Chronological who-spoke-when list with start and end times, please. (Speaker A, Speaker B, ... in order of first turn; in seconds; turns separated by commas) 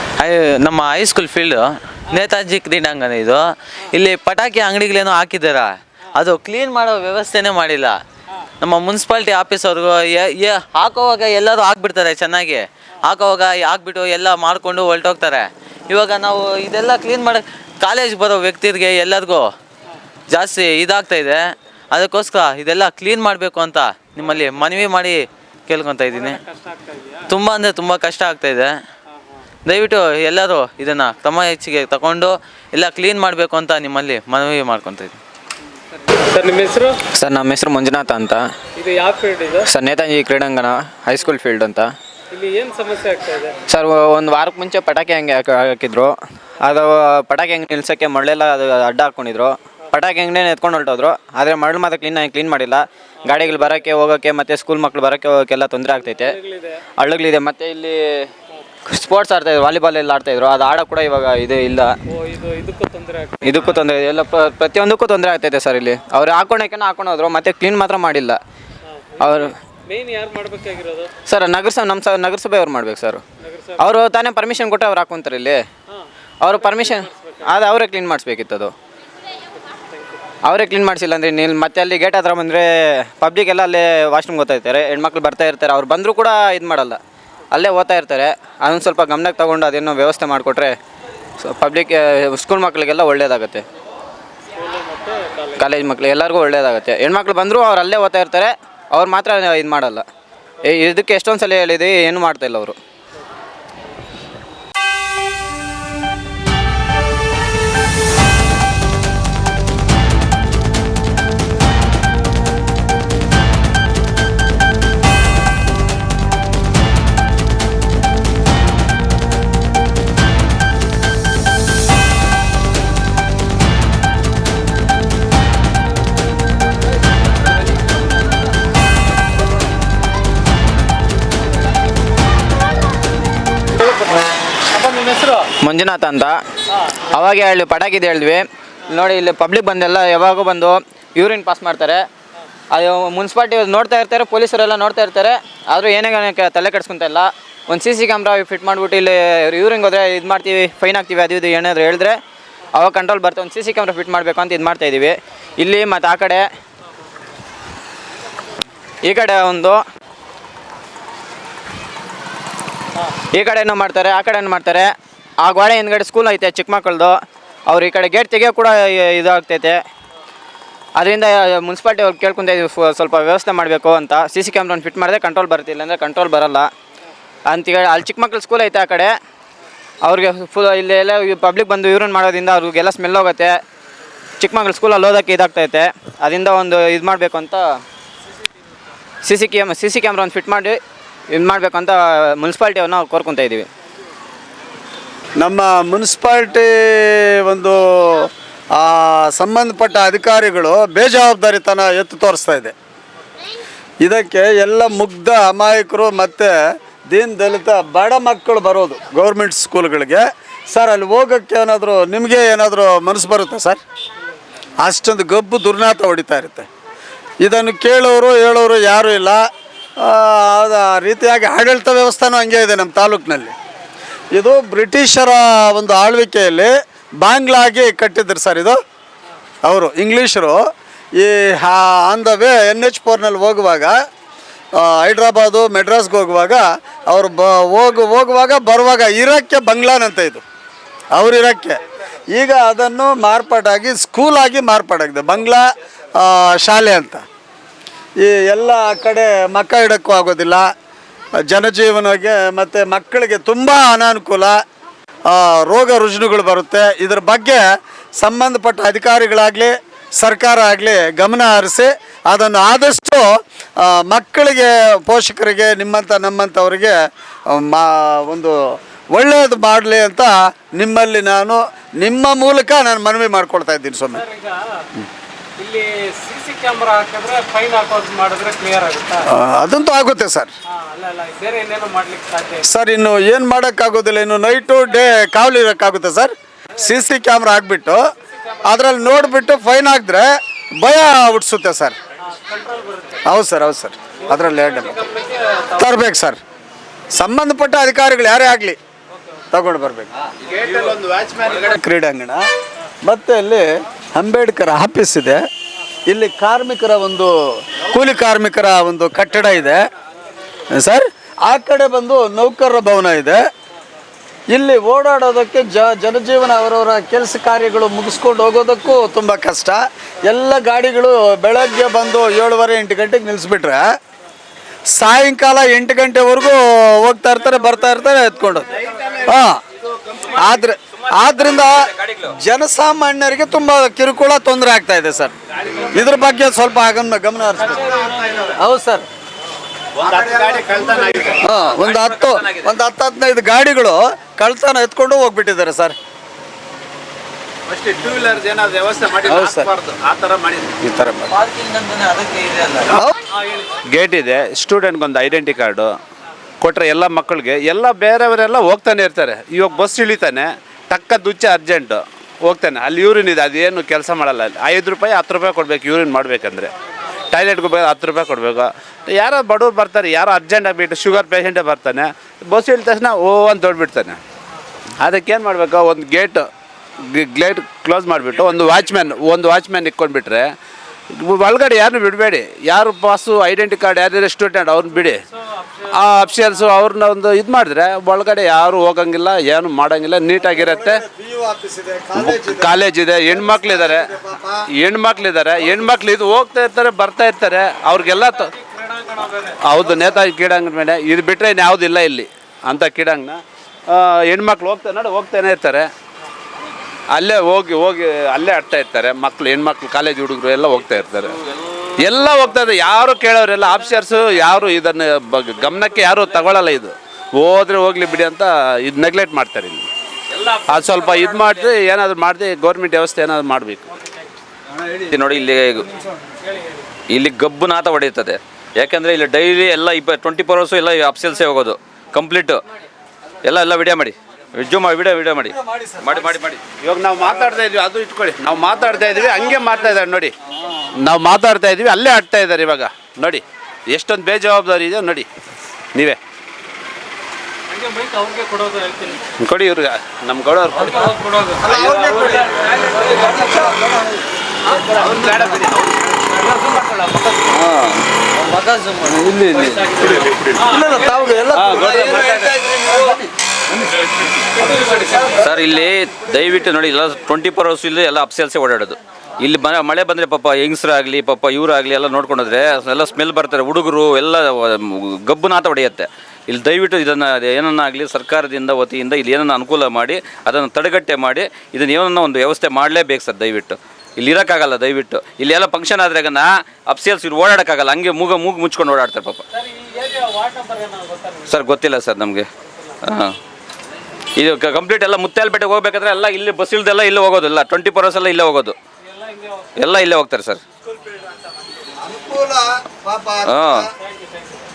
Speaker A: 0.2-7.9, Speaker A: 8.6-19.5, Speaker A: 20.3-26.4, Speaker B: 26.2-27.2, Speaker A: 27.3-28.7, Speaker A: 29.7-35.2, Speaker B: 36.2-37.0, Speaker C: 37.2-38.4, Speaker B: 38.8-39.6, Speaker C: 39.7-41.9, Speaker B: 42.3-43.5, Speaker C: 43.7-56.4, Speaker C: 57.0-58.3, Speaker C: 58.9-62.0, Speaker B: 62.2-63.4, Speaker C: 63.4-68.4, Speaker C: 69.2-69.5, Speaker B: 69.9-71.1, Speaker C: 71.3-73.2, Speaker C: 73.8-75.6, Speaker C: 76.4-78.7, Speaker C: 80.5-87.0, Speaker C: 87.5-90.7, Speaker C: 91.4-93.7, Speaker B: 94.6-95.6, Speaker C: 95.5-100.0, Speaker C: 100.6-102.8, Speaker B: 134.8-135.4, Speaker C: 135.6-136.4, Speaker C: 137.1-142.0, Speaker C: 142.7-152.2, Speaker C: 152.8-156.4, Speaker C: 159.0-159.8, Speaker C: 163.3-164.9, Speaker C: 165.4-167.2, Speaker C: 167.7-169.8, Speaker C: 171.0-176.7, Speaker C: 177.5-179.2, Speaker C: 180.0-183.6, Speaker C: 184.4-187.8, Speaker C: 189.2-190.8, Speaker C: 191.3-193.7, Speaker D: 195.4-202.7, Speaker D: 204.0-206.5, Speaker D: 207.1-213.8, Speaker D: 214.8-216.7, Speaker D: 217.4-219.4, Speaker D: 220.0-223.5, Speaker D: 224.3-228.8, Speaker D: 229.7-230.6, Speaker D: 231.2-233.9, Speaker D: 234.8-240.4, Speaker D: 241.1-241.8, Speaker D: 242.3-245.6, Speaker D: 246.2-247.2, Speaker D: 248.2-250.7, Speaker D: 251.5-254.6, Speaker D: 255.3-257.6, Speaker D: 258.2-263.3, Speaker D: 263.8-267.0, Speaker D: 267.5-268.6, Speaker D: 269.1-274.2, Speaker B: 274.3-274.6, Speaker B: 275.6-279.2, Speaker D: 279.3-280.5, Speaker B: 280.9-282.6, Speaker D: 282.7-288.0, Speaker D: 288.7-290.3, Speaker D: 290.8-292.0, Speaker B: 292.5-293.1, Speaker D: 293.3-295.1, Speaker D: 295.8-296.4, Speaker D: 297.1-298.8, Speaker D: 299.5-300.1, Speaker E: 300.5-301.7, Speaker D: 301.7-302.4, Speaker D: 303.0-305.4, Speaker D: 306.1-307.3, Speaker D: 307.9-309.8, Speaker D: 310.8-313.4, Speaker D: 314.5-323.8, Speaker D: 324.9-328.7, Speaker D: 329.2-329.6, Speaker D: 330.4-331.7, Speaker D: 332.4-335.3, Speaker D: 335.9-339.1, Speaker E: 340.0-341.4, Speaker D: 341.4-346.0, Speaker F: 341.7-342.6, Speaker E: 347.7-350.7, Speaker D: 349.3-349.7, Speaker D: 350.8-351.3, Speaker A: 351.1-353.0, Speaker E: 353.9-355.9, Speaker E: 356.6-366.7, Speaker E: 367.3-374.2, Speaker E: 375.0-376.5, Speaker E: 377.1-380.5, Speaker E: 381.1-385.2, Speaker E: 385.9-391.0, Speaker D: 390.3-394.6, Speaker E: 392.1-394.2, Speaker E: 394.8-398.5, Speaker B: 398.7-399.1, Speaker E: 399.6-405.9, Speaker E: 407.1-411.3, Speaker E: 412.0-419.9, Speaker E: 420.7-423.8, Speaker F: 424.9-425.9, Speaker F: 427.1-432.6, Speaker F: 433.4-436.6, Speaker D: 435.5-436.4, Speaker E: 436.8-440.3, Speaker E: 441.0-445.3, Speaker B: 447.7-449.2, Speaker E: 449.4-452.7, Speaker D: 451.6-454.2, Speaker E: 454.9-456.8, Speaker F: 457.5-458.0, Speaker A: 458.4-459.8, Speaker F: 459.3-460.6, Speaker D: 460.6-463.1, Speaker E: 461.5-462.5, Speaker F: 465.3-489.4, Speaker B: 489.8-491.5, Speaker F: 491.5-492.5, Speaker F: 493.0-493.4, Speaker F: 494.4-498.8, Speaker F: 499.8-500.6, Speaker D: 502.0-503.9, Speaker F: 503.5-503.9